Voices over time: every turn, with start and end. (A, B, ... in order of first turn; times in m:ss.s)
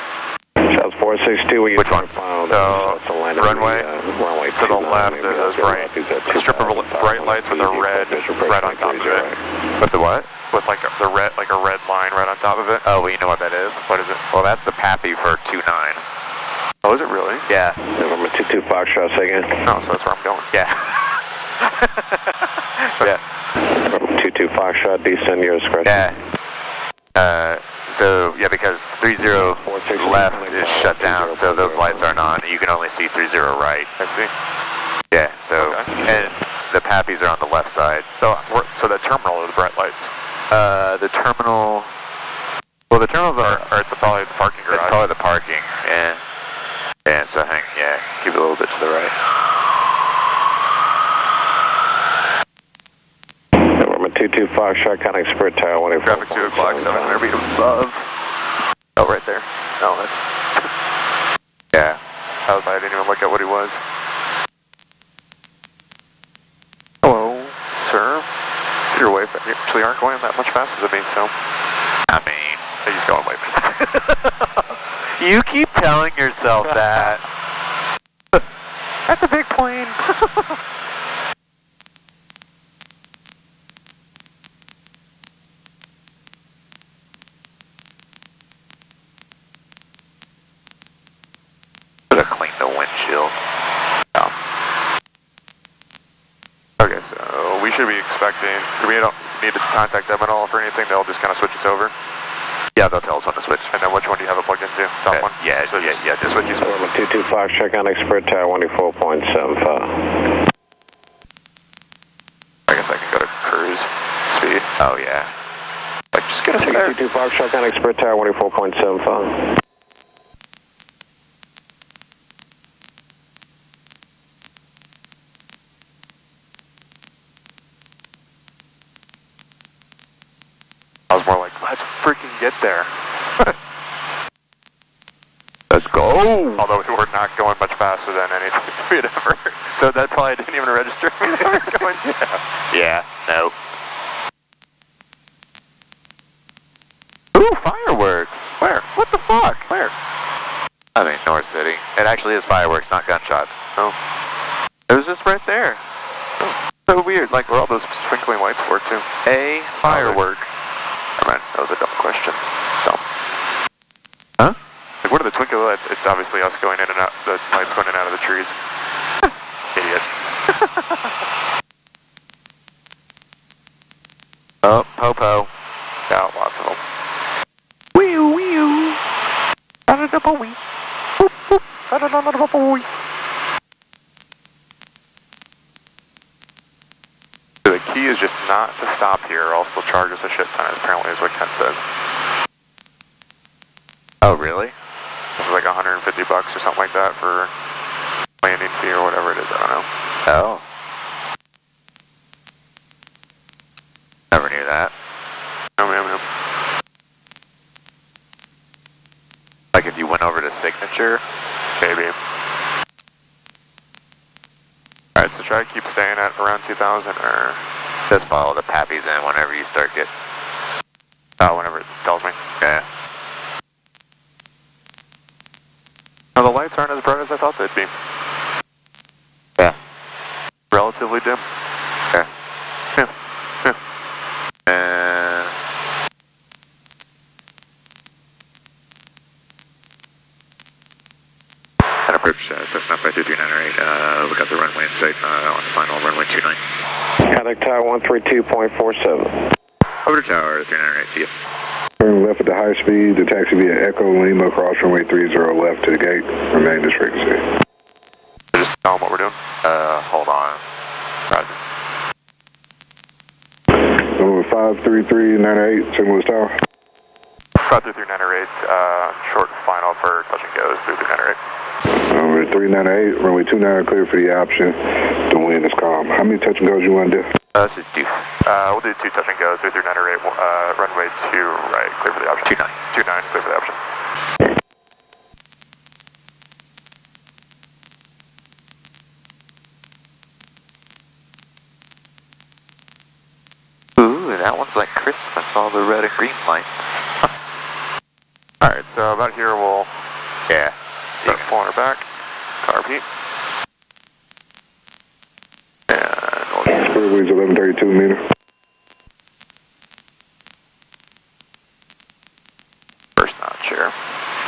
0:00.6-0:09.8 A
0:01.8-0:02.8 B
0:02.7-0:03.0 C
0:03.4-0:03.8 B
0:04.5-0:09.2 C
0:09.8-0:10.3 B
0:10.5-0:12.8 C
0:12.8-0:16.0 B
0:13.9-0:14.2 C
0:16.8-0:17.5 C
0:17.5-0:17.8 B
0:17.8-0:19.6 A
0:19.6-0:20.5 C
0:20.5-0:21.0 B
0:21.6-0:23.2 B
0:23.8-0:26.1 A
0:25.8-0:26.2 B
0:27.1-0:33.9 B
0:29.4-0:32.3 A
0:34.0-0:34.3 C
0:35.1-0:38.5 B
0:35.6-0:36.0 C
0:35.9-0:36.3 A
0:38.2-0:40.1 C
0:40.5-0:41.9 B
0:42.9-0:43.6 B
0:43.4-0:45.0 C
0:44.7-0:46.2 B
0:47.0-0:49.1 B
0:53.6-0:57.4 A
0:56.0-0:58.0 C
0:59.0-1:00.7 C
1:01.7-1:02.0 B
1:02.5-1:03.8 C
1:07.0-1:08.3 C
1:08.9-1:11.3 C
1:12.1-1:12.6 B
1:12.8-1:13.7 C
1:13.6-1:17.2 B
1:16.6-1:17.2 C
1:19.1-1:20.4 C
1:32.1-1:33.4 B
1:36.8-1:41.9 C
1:42.8-1:43.7 B
1:43.7-1:46.6 C
1:45.1-1:46.6 B
1:46.6-1:50.4 A
1:52.7-1:54.7 C
1:54.8-1:55.3 B
1:56.1-1:56.9 C
1:56.6-1:59.4 A
2:11.1-2:13.5 C
2:15.7-2:16.6 B
2:16.6-2:22.4 C
2:21.4-2:21.8 B
2:22.7-2:23.6 B
2:27.3-2:29.7 B
2:30.9-2:33.6 B
2:34.9-2:35.8 B
2:36.9-2:37.5 B
2:37.5-2:39.0 C
2:39.2-2:40.2 B
2:39.8-2:40.5 C
2:41.2-2:43.0 C
2:45.0-2:48.6 C
2:49.7-2:50.0 C
2:50.5-2:51.0 B
2:54.6-2:55.5 B
2:56.1-2:56.8 C
2:57.9-2:59.0 B
2:59.9-3:01.6 B
3:01.9-3:03.0 C
3:07.6-3:11.8 C
3:14.2-3:14.7 B
3:15.4-3:17.5 C
3:18.4-3:19.9 C
3:20.2-3:20.6 B
3:24.3-3:24.9 B
3:25.8-3:26.2 C
3:29.7-3:31.2 B
3:31.8-3:32.1 C
3:35.2-3:37.6 C
3:38.1-3:40.1 B
3:41.4-3:42.4 C
3:42.6-3:42.8 B
3:46.4-3:47.9 C
3:50.7-3:51.4 C
3:54.7-3:55.5 B
4:02.1-4:06.6 B
4:07.3-4:09.4 A
4:10.0-4:11.3 B
4:12.0-4:17.4 D
4:18.5-4:19.4 C
4:19.6-4:20.6 B
4:21.3-4:21.6 C
4:23.7-4:26.5 D
4:27.6-4:31.4 C
4:32.1-4:37.2 D
4:37.5-4:38.2 B
4:38.4-4:43.8 C
4:42.4-4:42.8 B
4:54.0-4:57.3 B
4:58.6-4:59.9 C
5:00.5-5:01.4 B
5:01.2-5:02.0 C
5:02.6-5:03.0 C
5:05.9-5:06.9 C
5:06.7-5:08.2 D
5:13.2-5:13.9 C